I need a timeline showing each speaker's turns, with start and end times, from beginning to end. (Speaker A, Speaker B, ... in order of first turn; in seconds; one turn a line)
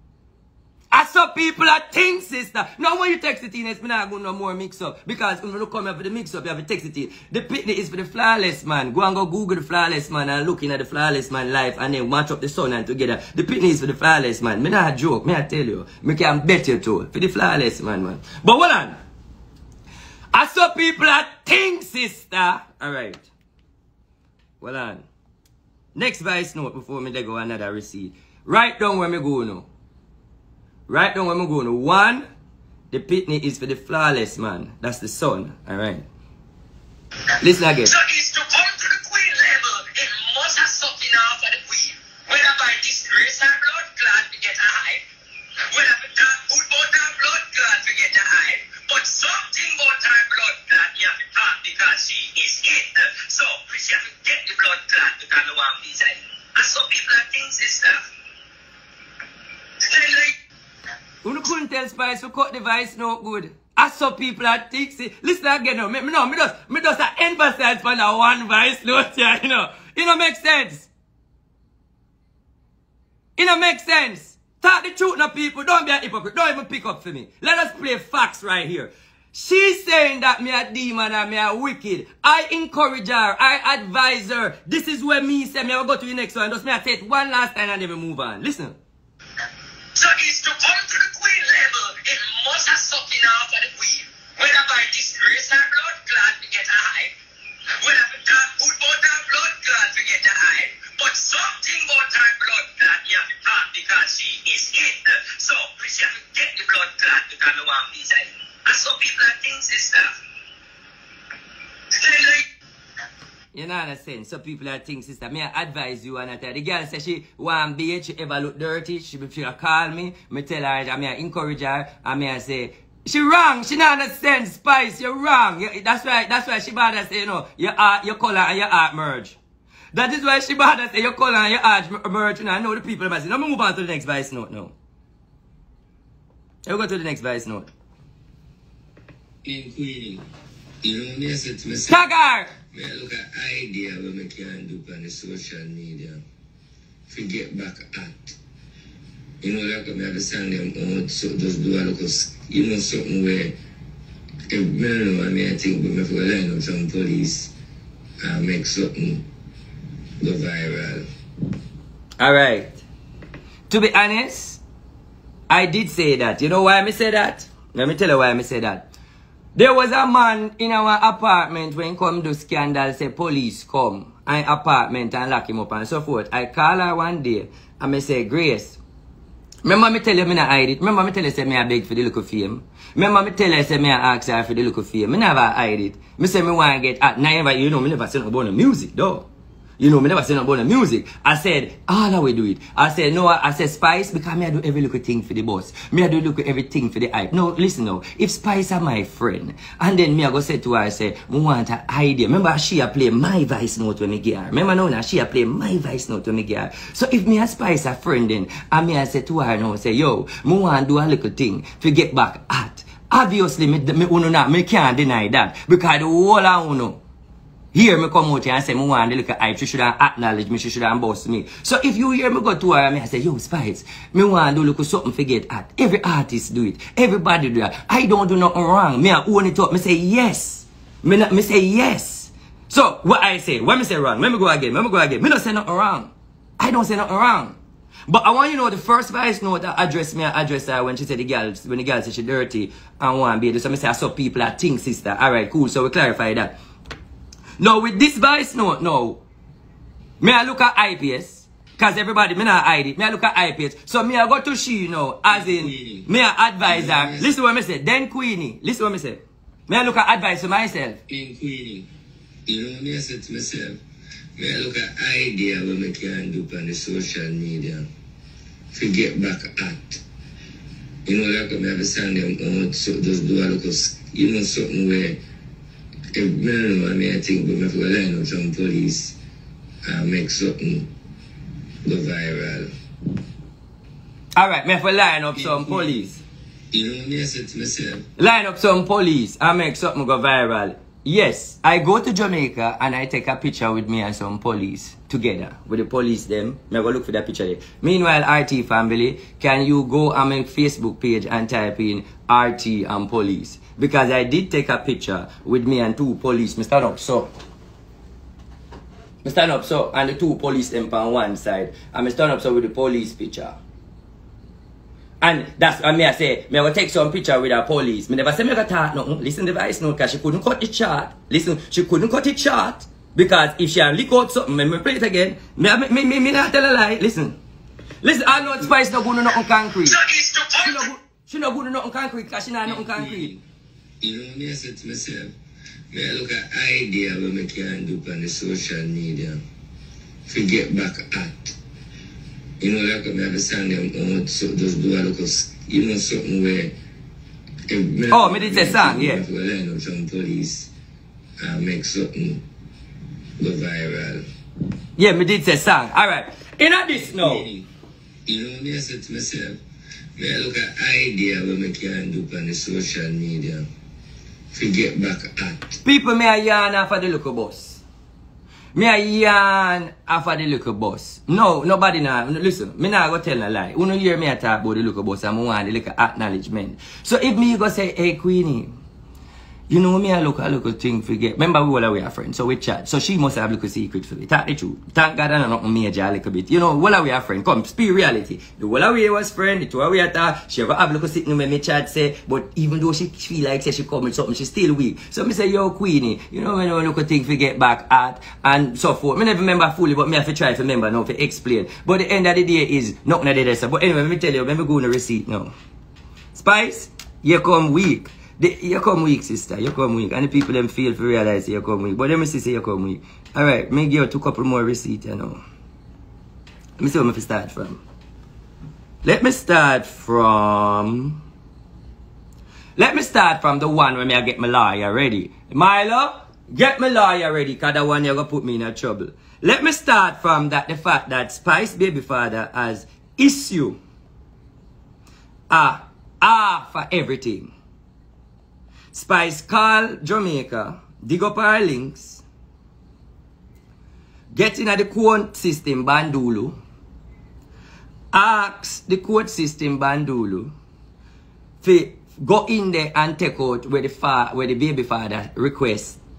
Speaker A: 0.9-18.9
Speaker A: 20.3-23.3
Speaker A: 24.6-25.0
Speaker A: 25.9-29.7
Speaker A: 30.9-32.2
Speaker A: 32.9-36.0
Speaker A: 37.4-37.9
Speaker B: 37.8-45.0
Speaker B: 45.6-58.0
Speaker B: 59.8-60.3
Speaker A: 61.2-70.9
Speaker A: 73.4-88.8
Speaker B: 89.9-97.1
Speaker B: 97.8-110.2
Speaker B: 111.9-112.5
Speaker A: 113.5-129.4
Speaker A: 129.9-134.7
Speaker A: 136.7-137.7
Speaker C: 139.4-140.2
Speaker C: 140.8-142.0
Speaker A: 141.9-142.5
Speaker C: 142.7-146.2
Speaker C: 147.1-148.3
Speaker C: 149.4-153.5
Speaker C: 154.5-157.5
Speaker C: 158.2-159.2
Speaker C: 160.2-161.0
Speaker A: 162.2-162.8
Speaker A: 163.7-164.6
Speaker A: 165.5-168.9
Speaker A: 169.6-178.8
Speaker A: 179.6-189.3
Speaker A: 189.8-217.0
Speaker A: 217.7-237.6
Speaker A: 238.1-246.5
Speaker A: 247.6-249.2
Speaker A: 250.2-261.0
Speaker C: 255.5-256.1
Speaker C: 256.7-257.3
Speaker C: 261.1-261.9
Speaker C: 262.5-263.8
Speaker C: 264.4-267.8
Speaker C: 268.7-270.0
Speaker C: 271.1-275.2
Speaker C: 276.1-279.1
Speaker C: 279.9-280.9
Speaker C: 281.9-282.7
Speaker A: 284.3-286.2
Speaker C: 285.4-285.8
Speaker C: 286.7-288.0
Speaker A: 288.2-307.3
Speaker A: 309.2-313.6
Speaker A: 315.2-327.4
Speaker A: 328.0-330.0
Speaker B: 329.9-330.9
Speaker A: 330.6-333.3
Speaker C: 332.9-333.4
Speaker C: 334.0-335.3
Speaker C: 335.9-339.4
Speaker C: 340.3-341.5
Speaker C: 342.6-346.7
Speaker C: 347.7-350.7
Speaker A: 348.1-349.2
Speaker C: 351.4-352.4
Speaker C: 353.4-354.2
Speaker A: 355.0-357.5
Speaker C: 357.1-357.6
Speaker C: 358.3-359.6
Speaker C: 360.2-363.6
Speaker C: 364.6-365.7
Speaker A: 365.8-367.8
Speaker A: 368.7-378.7
Speaker A: 379.7-405.5
Speaker A: 406.3-415.4
Speaker A: 416.8-417.8
Speaker A: 419.0-421.2
Speaker A: 422.8-433.8
Speaker A: 435.5-437.5
Speaker A: 438.9-442.2
Speaker A: 444.3-446.6
Speaker A: 448.1-450.5
Speaker A: 451.6-456.0